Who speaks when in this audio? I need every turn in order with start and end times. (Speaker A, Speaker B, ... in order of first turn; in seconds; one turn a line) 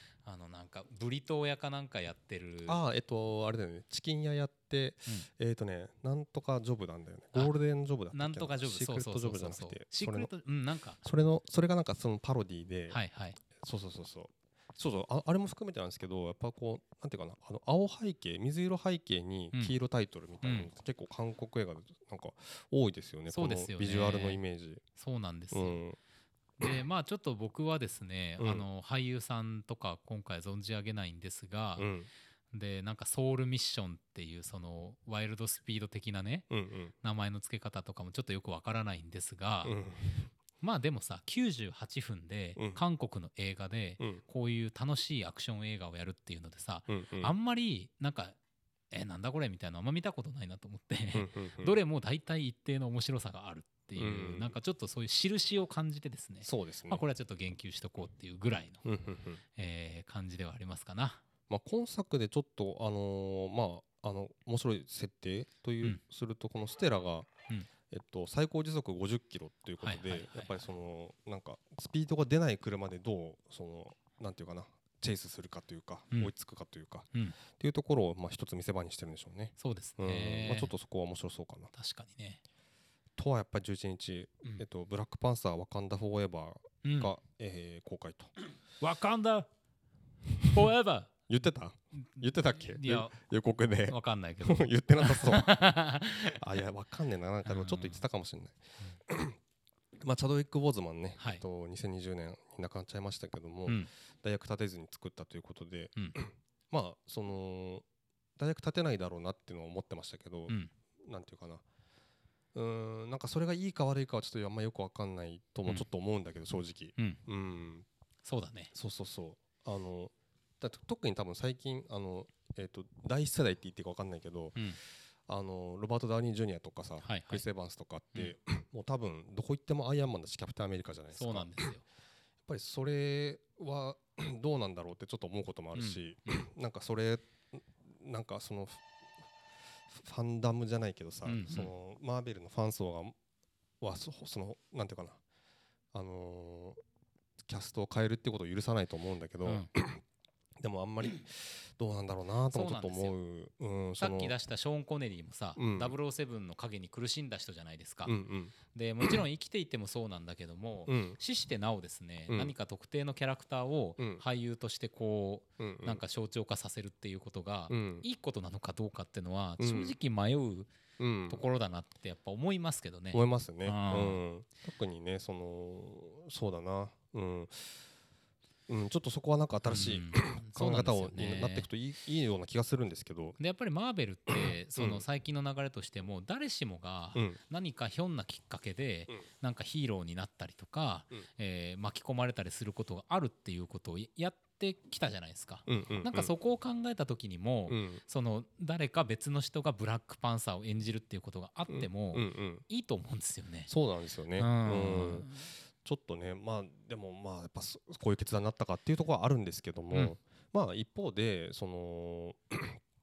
Speaker A: 0.2-2.8
Speaker B: 2.7-10.3
Speaker A: 8.1-11.0
Speaker B: 11.0-13.0
Speaker A: 12.9-13.4
Speaker B: 13.5-24.8
Speaker A: 20.4-20.7
Speaker A: 23.3-24.4
Speaker A: 25.0-25.8
Speaker B: 25.5-26.0
Speaker A: 26.6-31.9
Speaker B: 28.4-28.6
Speaker B: 31.8-32.1
Speaker A: 32.5-36.5
Speaker B: 36.5-36.9
Speaker A: 37.0-39.8
Speaker B: 39.6-40.3
Speaker A: 40.6-48.4
Speaker B: 46.9-47.3
Speaker A: 48.9-58.8
Speaker B: 51.1-51.8
Speaker B: 54.0-54.5
Speaker B: 56.4-57.0
Speaker B: 58.8-59.4
Speaker A: 59.5-61.2
Speaker B: 61.5-67.3
Speaker B: 67.9-81.7
Speaker A: 69.8-70.6
Speaker A: 79.6-80.7
Speaker A: 81.7-82.4
Speaker B: 83.2-88.3
Speaker A: 86.8-87.1
Speaker A: 88.8-89.5
Speaker A: 90.5-91.1
Speaker B: 91.3-99.4
Speaker A: 92.2-93.1
Speaker A: 93.9-96.4
Speaker A: 97.5-98.0
Speaker B: 100.0-107.8
Speaker A: 101.2-101.4
Speaker B: 108.4-111.6
Speaker B: 112.5-117.8
Speaker A: 118.2-118.7
Speaker B: 118.7-124.6
Speaker B: 125.3-131.7
Speaker A: 127.0-127.4
Speaker A: 131.1-131.8
Speaker B: 132.4-138.8
Speaker A: 135.7-136.4
Speaker B: 139.9-143.1
Speaker A: 141.2-141.7
Speaker B: 143.8-145.2
Speaker B: 145.9-146.8
Speaker B: 147.5-150.0
Speaker A: 149.4-149.7
Speaker B: 150.6-154.3
Speaker A: 152.5-153.2
Speaker A: 154.0-158.1
Speaker B: 155.6-155.9
Speaker B: 158.1-159.2
Speaker A: 158.7-170.7
Speaker B: 160.9-161.2
Speaker B: 162.3-162.5
Speaker B: 164.0-164.2
Speaker B: 165.6-166.0
Speaker B: 167.7-168.1
Speaker B: 169.6-169.9
Speaker B: 171.0-171.4
Speaker A: 171.3-174.2
Speaker B: 173.1-177.8
Speaker B: 178.7-183.4
Speaker A: 179.6-181.7
Speaker A: 183.4-203.7
Speaker B: 184.3-185.0
Speaker B: 195.7-196.3
Speaker B: 197.7-198.0
Speaker B: 201.7-202.6
Speaker B: 203.7-212.8
Speaker A: 204.4-205.5